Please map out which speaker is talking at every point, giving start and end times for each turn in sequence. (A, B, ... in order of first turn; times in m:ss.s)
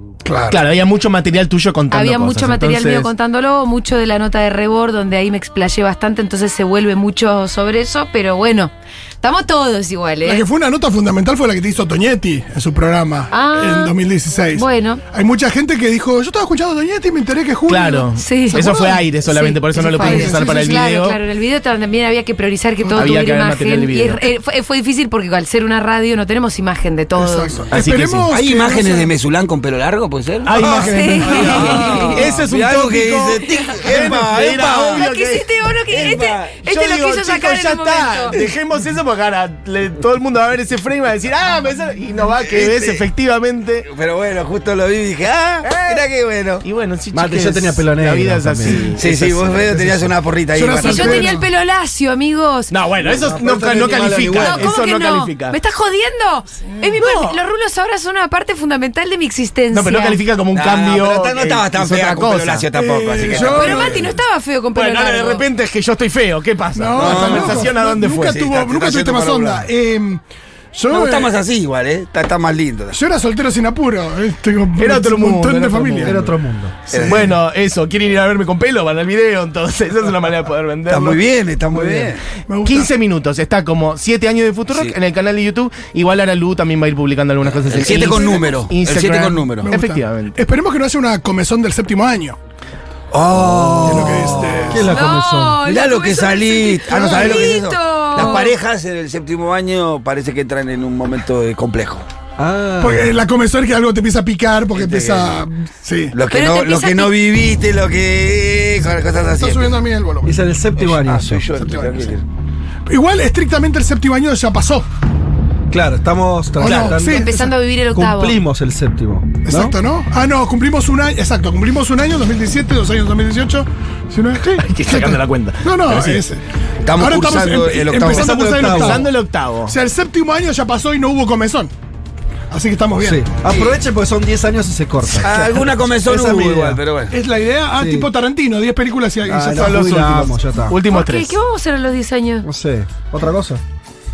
0:00.2-0:00.6 A
0:00.5-0:03.1 B
0:01.9-0:10.4 C
0:10.2-0:19.0 A
0:13.3-0:14.0 C
0:14.5-0:15.0 C
0:17.7-0:21.2 B
0:18.2-0:27.6 C
0:19.7-0:20.7 A
0:22.8-0:23.1 A
0:22.9-0:24.2 B
0:27.2-0:29.1 A
0:27.7-0:28.3 B
0:28.3-0:35.1 D
0:30.4-0:35.5 B
0:30.8-0:32.2 C
0:34.9-0:38.4 C
0:35.9-0:36.6 D
0:36.6-0:43.9 B
0:42.4-0:43.0 D
0:43.9-0:46.6 D
0:45.6-0:46.0 B
0:46.6-0:49.1 B
0:47.1-0:50.1 E
0:49.0-0:51.4 D
0:50.5-0:51.4 A
0:50.8-0:52.7 C
0:52.7-0:55.6 B
0:53.0-0:54.7 E
0:54.3-1:00.2 C
0:57.0-0:57.4 B
0:59.7-1:02.6 B
1:00.5-1:04.1 D
1:02.7-1:04.0 A
1:03.6-1:05.4 C
1:04.7-1:08.4 B
1:06.7-1:10.2 A
1:06.9-1:09.7 D
1:10.7-1:11.3 A
1:10.9-1:13.0 D
1:12.9-1:16.2 A
1:14.8-1:16.2 B
1:16.0-1:16.8 E
1:16.9-1:17.3 D
1:16.9-1:21.2 B
1:16.9-1:17.2 A
1:20.9-1:22.2 D
1:21.7-1:22.2 E
1:22.5-1:22.9 A
1:22.6-1:30.4 B
1:24.7-1:25.0 D
1:27.5-1:29.7 D
1:29.6-1:32.4 A
1:33.1-1:34.9 D
1:33.4-1:35.6 E
1:33.8-1:34.9 A
1:34.9-1:38.5 C
1:35.6-1:42.0 D
1:37.0-1:37.5 A
1:42.4-1:43.1 E
1:42.8-1:46.1 A
1:44.7-1:45.4 D
1:46.1-1:49.8 D
1:46.3-1:47.2 C
1:49.3-1:50.3 A
1:50.2-1:51.5 E
1:50.8-1:52.2 D
1:51.6-1:52.1 A
1:52.9-1:54.8 A
1:55.7-1:59.7 E
1:56.6-1:57.5 A
1:56.6-1:57.0 D
1:57.0-1:58.4 C
1:59.4-2:06.4 A
2:04.4-2:06.2 B
2:06.8-2:08.7 D
2:07.0-2:09.1 A
2:08.0-2:09.0 E
2:08.7-2:09.7 B
2:09.7-2:11.7 A
2:12.5-2:13.3 A
2:13.0-2:16.8 E
2:15.2-2:17.2 D
2:17.1-2:19.7 A
2:17.8-2:18.1 E
2:19.2-2:20.8 E
2:19.5-2:21.3 B
2:20.9-2:22.4 C
2:22.4-2:23.6 E